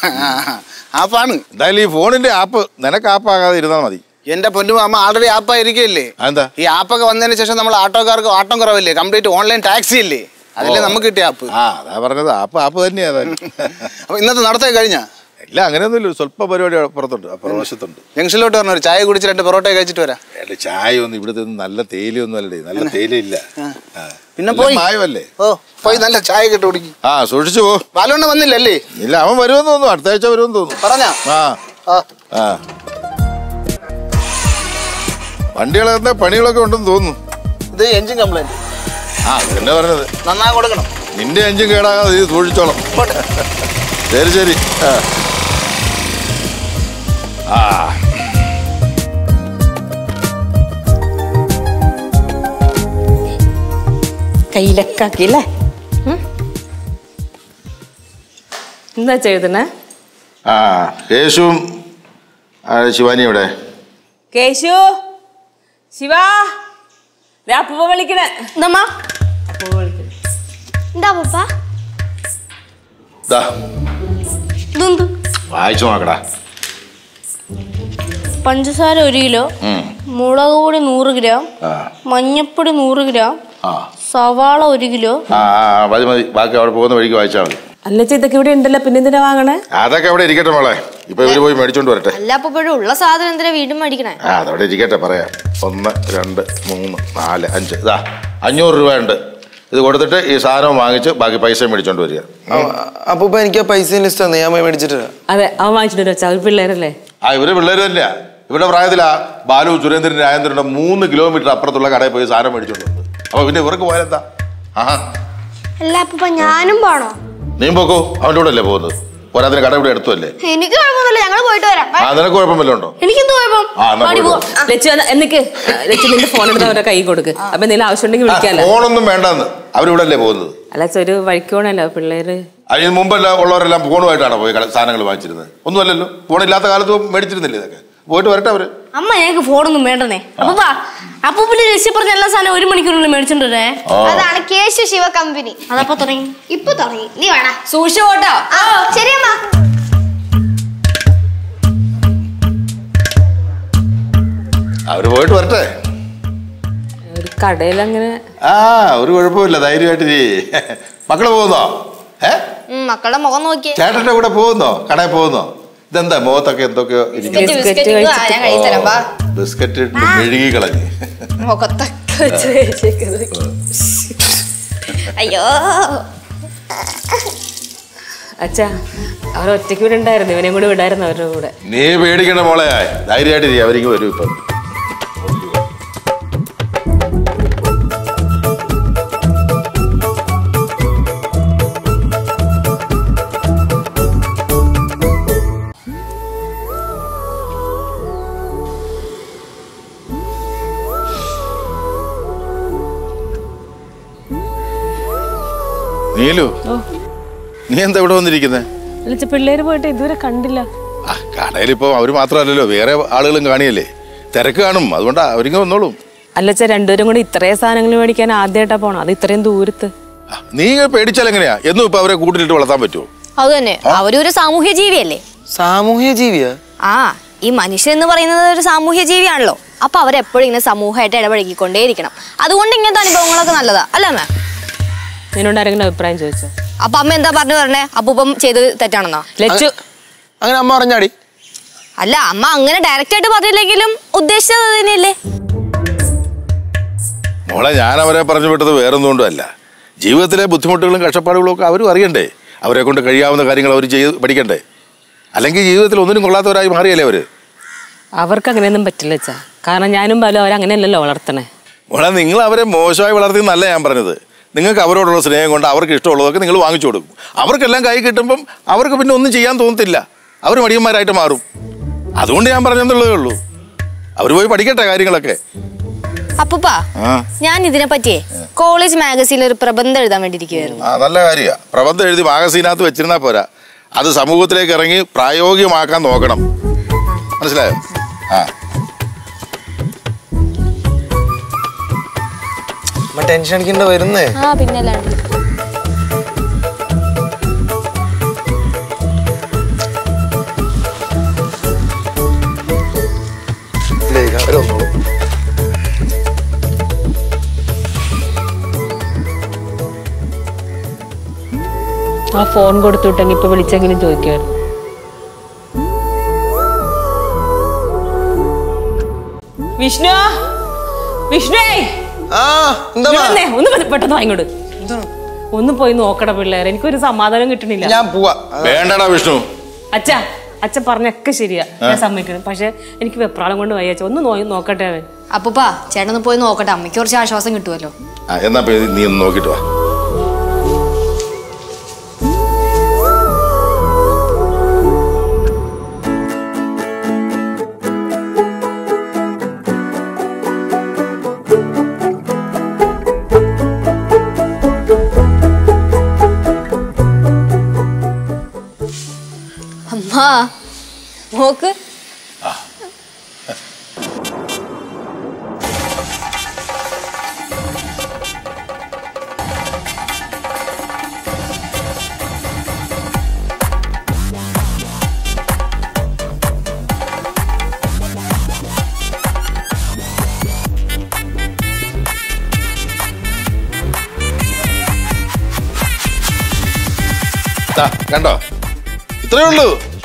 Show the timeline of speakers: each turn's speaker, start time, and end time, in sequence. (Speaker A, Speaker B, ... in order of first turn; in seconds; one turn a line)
Speaker A: 0.2-1.4
Speaker B: 1.5-4.0
Speaker A: 4.3-11.5
Speaker B: 6.2-6.5
Speaker B: 10.6-13.8
Speaker A: 14.1-15.0
Speaker B: 15.4-18.0
Speaker A: 18.1-20.2
Speaker B: 20.4-23.4
Speaker B: 24.0-25.3
Speaker A: 24.4-24.8
Speaker A: 25.4-26.9
Speaker B: 27.0-27.8
Speaker A: 27.9-28.8
Speaker B: 29.0-31.6
Speaker A: 30.8-31.2
Speaker B: 32.3-32.6
Speaker B: 35.5-37.2
Speaker A: 37.7-38.5
Speaker B: 39.3-40.1
Speaker A: 40.2-40.9
Speaker B: 41.1-42.9
Speaker B: 44.1-45.0
Speaker B: 47.5-48.4
Speaker C: 54.5-55.4
Speaker C: 59.0-59.7
Speaker B: 60.5-61.6
Speaker B: 62.7-63.5
Speaker C: 64.3-64.8
Speaker C: 65.9-66.5
Speaker C: 67.5-68.3
Speaker D: 68.5-68.9
Speaker C: 69.5-70.1
Speaker E: 70.9-71.5
Speaker D: 74.7-75.1
Speaker B: 75.5-76.2
Speaker D: 78.4-79.5
Speaker B: 79.6-79.9
Speaker D: 80.1-81.5
Speaker B: 81.6-81.9
Speaker D: 82.0-83.3
Speaker D: 84.1-85.2
Speaker B: 85.3-87.6
Speaker C: 87.9-89.6
Speaker B: 89.7-92.2
Speaker F: 92.1-94.2
Speaker B: 94.2-99.2
Speaker B: 99.7-102.7
Speaker G: 102.5-105.1
Speaker C: 105.3-106.9
Speaker B: 107.2-114.2
Speaker E: 115.8-117.2
Speaker B: 117.6-120.3
Speaker E: 120.4-122.1
Speaker B: 122.0-123.0
Speaker D: 123.0-124.5
Speaker B: 123.8-124.4
Speaker C: 124.7-128.7
Speaker B: 128.3-130.5
Speaker C: 130.7-132.4
Speaker B: 132.7-138.7
Speaker D: 138.9-143.8
Speaker B: 143.9-144.3
Speaker E: 144.0-145.6
Speaker D: 145.7-146.4
Speaker E: 146.5-147.6
Speaker F: 147.7-148.8
Speaker E: 148.5-149.4
Speaker B: 154.9-155.7
Speaker C: 157.1-158.2
Speaker B: 158.4-161.7
Speaker F: 162.7-163.8
Speaker B: 163.8-167.6
Speaker C: 167.3-168.4
Speaker F: 167.3-169.0
Speaker B: 168.4-171.3
Speaker F: 171.4-173.3
Speaker C: 173.9-174.4
Speaker F: 175.1-176.0
Speaker C: 178.4-178.7
Speaker C: 179.3-181.5
Speaker B: 181.7-184.4
Speaker B: 185.2-185.6
Speaker B: 206.1-206.5
Speaker B: 207.7-208.7
Speaker C: 209.1-210.7
Speaker B: 211.1-216.0
Speaker C: 216.3-219.9
Speaker B: 220.3-223.1
Speaker F: 223.4-225.2
Speaker G: 225.5-226.6
Speaker F: 226.9-234.3
Speaker C: 235.3-236.5
Speaker F: 236.8-239.3
Speaker C: 239.4-239.7
Speaker G: 240.4-241.1
Speaker F: 242.0-245.2
Speaker B: 247.5-249.5
Speaker B: 250.0-254.6
Speaker B: 255.3-257.2
Speaker C: 258.2-261.5
Speaker B: 261.9-271.4
Speaker B: 272.2-273.4
Speaker B: 274.2-275.4
Speaker F: 276.4-276.8
Speaker B: 277.0-277.3
Speaker F: 277.4-280.8
Speaker B: 280.8-286.4
Speaker B: 287.4-287.8
Speaker G: 293.1-294.4
Speaker F: 294.4-295.1
Speaker G: 304.1-304.9
Speaker C: 312.4-314.5
Speaker C: 319.8-320.3
Speaker C: 321.3-321.9
Speaker G: 322.3-323.4
Speaker C: 323.1-324.5
Speaker G: 324.8-325.1
Speaker C: 325.5-327.9
Speaker G: 327.8-328.8
Speaker B: 328.6-329.4
Speaker C: 329.9-335.1
Speaker F: 335.3-337.9
Speaker B: 338.3-339.6
Speaker F: 359.9-360.5
Speaker F: 361.3-361.7
Speaker B: 387.7-388.4
Speaker B: 389.2-389.8